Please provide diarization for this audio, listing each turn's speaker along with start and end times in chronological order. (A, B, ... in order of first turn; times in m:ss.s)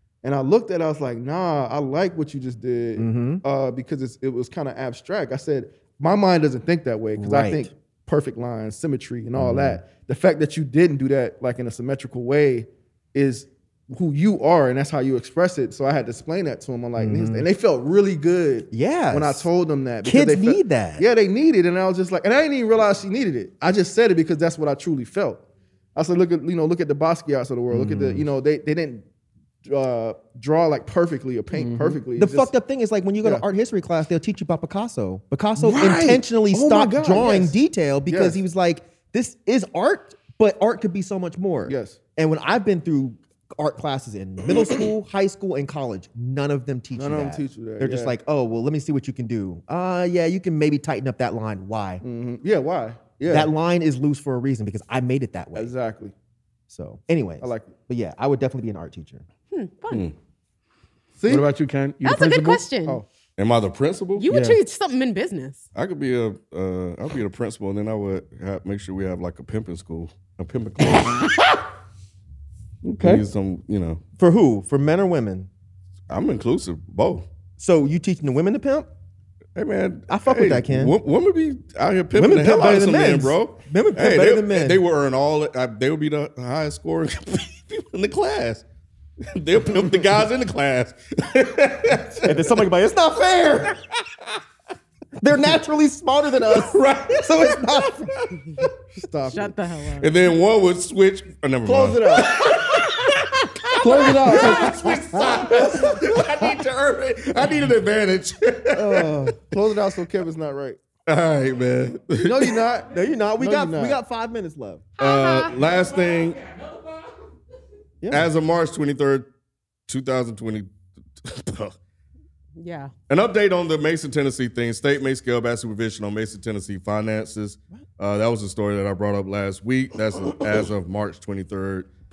0:00.2-0:25.4 A
0:03.0-0:03.4 B
0:07.2-0:07.7 B
0:09.4-0:09.8 B
0:17.0-0:17.5 B
0:18.7-0:19.5 B
0:20.0-0:21.0 B
0:25.9-0:29.0 A
0:27.7-0:28.3 B
0:29.6-0:32.5 A
0:31.6-0:32.0 C
0:32.1-0:52.0 B
0:35.6-0:37.5 A
0:38.1-0:38.4 A
0:41.6-0:42.0 A
0:47.0-0:48.1 A
0:52.0-0:53.5 A
0:53.3-0:55.7 B
0:55.5-0:56.1 A
0:56.7-0:59.2 B
0:57.4-0:57.7 A
0:59.5-1:00.1 D
1:01.2-1:01.5 A
1:01.3-1:02.7 C
1:02.0-1:03.0 D
1:03.4-1:04.2 E
1:04.2-1:05.6 D
1:04.2-1:04.6 C
1:05.7-1:11.3 E
1:11.0-1:11.6 C
1:12.8-1:13.2 C
1:13.0-1:14.0 E
1:14.2-1:15.5 B
1:16.1-1:17.2 E
1:17.6-1:18.9 B
1:19.6-1:28.6 E
1:20.1-1:21.0 B
1:22.1-1:24.8 B
1:29.3-1:32.5 E
1:32.2-1:33.8 B
1:35.2-1:38.4 B
1:36.5-1:38.3 E
1:38.9-1:39.5 A
1:39.3-1:40.1 D
1:40.0-1:49.3 E
1:41.6-1:42.5 A
1:43.8-1:46.2 A
1:45.4-1:46.0 B
1:48.7-1:49.4 B
1:49.5-1:50.8 A
1:51.1-1:52.6 E
1:52.2-1:54.0 A
1:52.9-1:54.8 B
1:55.0-1:55.5 D
1:55.0-1:56.5 E
1:58.0-1:58.3 B
1:58.1-1:59.2 E
1:59.9-2:00.7 E
2:01.2-2:01.7 E
2:02.6-2:02.9 D
2:03.1-2:11.9 E